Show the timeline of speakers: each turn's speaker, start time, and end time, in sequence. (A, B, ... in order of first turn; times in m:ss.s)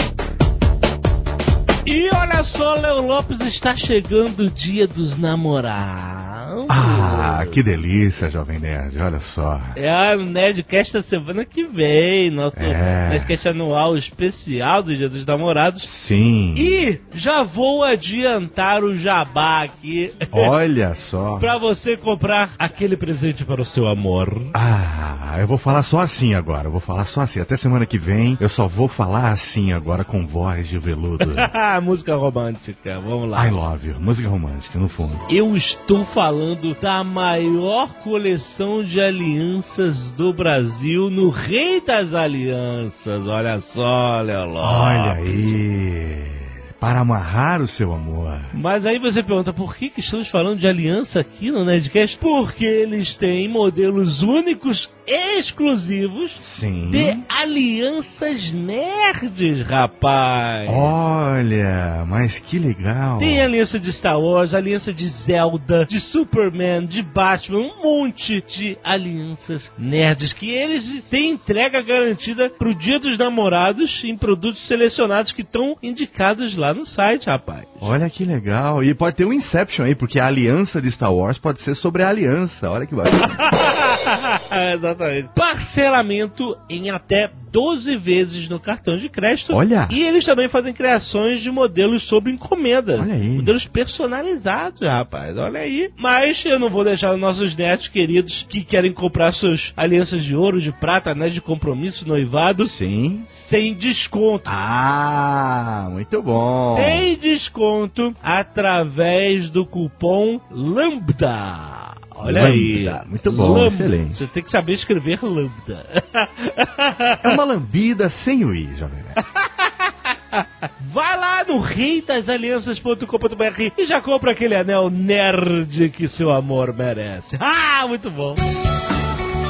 0:01.8-0:07.6 A
0:06.7-0:09.8 B
0:09.8-0:15.9 A
0:12.6-0:13.4 B
0:15.8-0:16.8 B
0:16.6-0:20.5 A
0:20.3-0:21.5 B
0:21.4-0:24.5 A
0:24.5-0:31.5 B
0:31.2-0:33.5 A
0:33.3-0:35.2 B
0:35.3-0:45.6 A
0:44.6-0:48.5 B
0:48.5-1:01.0 A
0:56.4-0:57.2 B
1:00.7-1:03.5 B
1:03.2-1:17.9 A
1:17.8-1:23.4 B
1:23.5-1:42.7 A
1:29.5-1:30.0 B
1:33.0-1:33.6 B
1:42.6-1:43.3 B
1:43.3-1:44.5 A
1:44.4-1:47.1 B
1:46.7-1:57.3 A
1:52.2-1:54.2 B
1:57.2-1:59.2 B
1:59.2-2:08.4 A